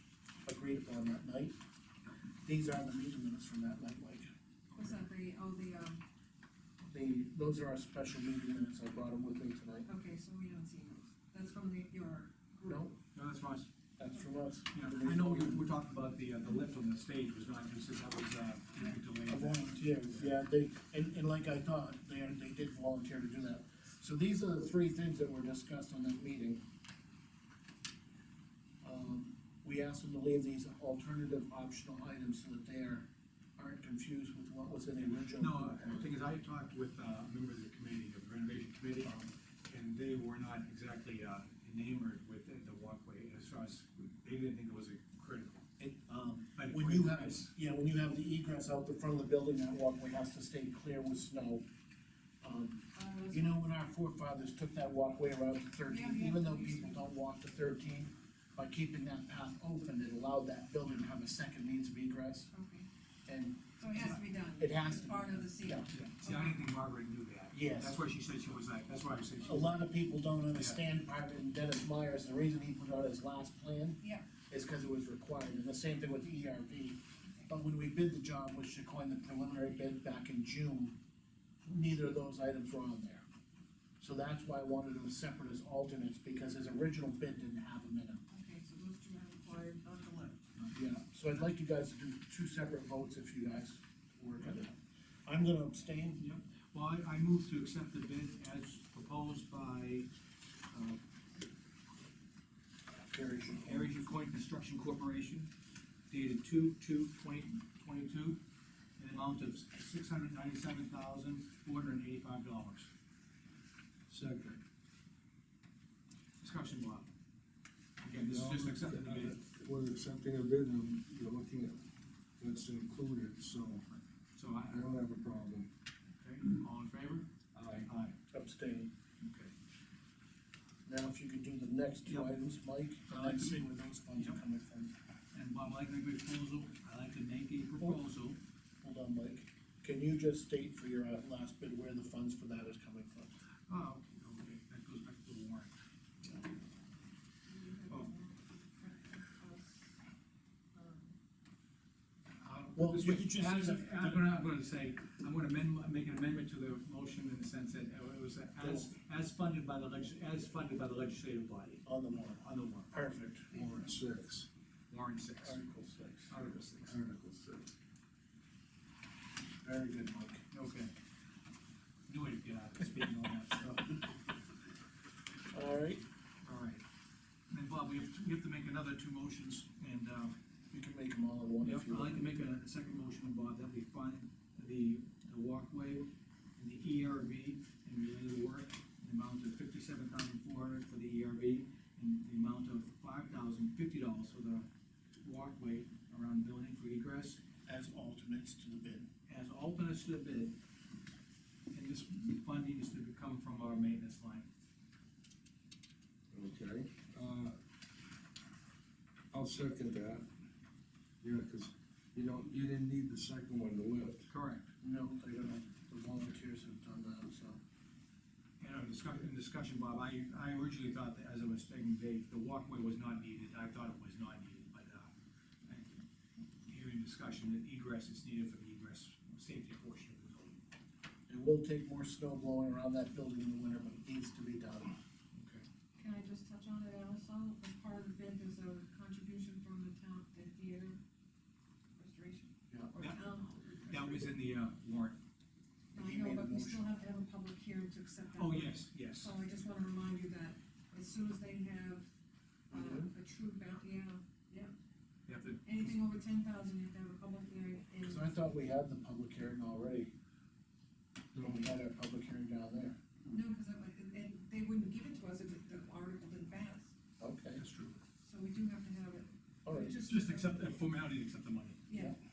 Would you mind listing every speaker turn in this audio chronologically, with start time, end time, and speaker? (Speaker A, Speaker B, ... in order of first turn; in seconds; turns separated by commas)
Speaker A: 0.4-1.6, Speaker A: 2.4-4.3, Speaker B: 4.7-6.0, Speaker A: 6.9-9.9, Speaker B: 9.8-12.9, Speaker A: 12.7-12.9, Speaker C: 13.1-13.7, Speaker A: 14.0-15.7, Speaker C: 14.7-20.4, Speaker A: 19.3-26.6, Speaker A: 28.8-36.1, Speaker C: 35.0-45.6, Speaker A: 45.8-51.6, Speaker C: 46.5-47.5, Speaker A: 52.4-62.5, Speaker B: 52.9-53.6, Speaker B: 55.9-57.0, Speaker B: 62.5-62.9, Speaker A: 63.2-65.9, Speaker B: 63.8-66.7, Speaker C: 65.9-69.9, Speaker A: 67.5-68.0, Speaker A: 69.4-81.0, Speaker C: 70.5-70.8, Speaker B: 74.0-74.3, Speaker A: 81.6-83.2, Speaker A: 84.0-88.2, Speaker B: 88.3-90.4, Speaker A: 90.7-96.2, Speaker C: 96.2-100.1, Speaker C: 100.7-101.0, Speaker A: 103.0-103.9, Speaker C: 103.6-105.5, Speaker C: 106.1-108.4, Speaker C: 109.0-112.9, Speaker D: 114.1-114.6, Speaker C: 116.4-117.1, Speaker C: 118.0-119.4, Speaker D: 118.1-121.8, Speaker D: 122.4-123.8, Speaker C: 123.9-124.9, Speaker D: 124.7-125.7, Speaker C: 126.2-127.3, Speaker D: 127.5-127.9, Speaker C: 127.8-128.2, Speaker A: 128.3-128.9, Speaker C: 129.2-129.5, Speaker A: 130.8-134.9, Speaker C: 132.1-132.4, Speaker C: 133.1-134.4, Speaker C: 135.3-138.4, Speaker A: 138.8-143.3, Speaker C: 143.7-145.8, Speaker B: 147.4-150.0, Speaker B: 150.7-151.2, Speaker C: 152.4-162.9, Speaker A: 152.7-154.3, Speaker A: 158.6-158.9, Speaker A: 161.8-163.5, Speaker D: 163.5-164.5, Speaker C: 164.9-165.6, Speaker A: 165.4-166.5, Speaker C: 166.3-167.0, Speaker D: 166.8-167.7, Speaker A: 169.6-170.4, Speaker C: 170.5-170.9, Speaker C: 172.1-174.2, Speaker A: 175.5-176.0, Speaker C: 176.4-176.8, Speaker C: 177.5-180.3, Speaker A: 180.7-182.2, Speaker C: 181.6-194.7, Speaker C: 195.2-197.4, Speaker A: 197.7-199.1, Speaker C: 199.3-200.5, Speaker C: 201.7-204.5, Speaker D: 206.3-207.6, Speaker D: 209.3-210.3, Speaker D: 211.2-214.3, Speaker C: 214.3-214.7, Speaker A: 214.8-217.6, Speaker C: 218.6-225.1, Speaker C: 225.7-226.0, Speaker C: 226.7-230.6, Speaker A: 231.3-234.9, Speaker C: 235.3-235.6, Speaker B: 236.0-241.0, Speaker B: 242.0-244.2, Speaker C: 243.9-245.2, Speaker B: 245.9-252.1, Speaker A: 245.9-246.9, Speaker C: 248.3-249.3, Speaker B: 252.7-254.7, Speaker A: 252.7-253.1, Speaker C: 255.3-255.9, Speaker B: 255.6-258.3, Speaker A: 258.0-260.1, Speaker D: 261.3-261.7, Speaker A: 261.3-263.0, Speaker B: 263.3-266.9, Speaker A: 267.2-267.6, Speaker C: 267.6-268.0, Speaker B: 268.2-270.8, Speaker A: 269.6-270.0, Speaker C: 270.0-271.8, Speaker B: 271.9-272.1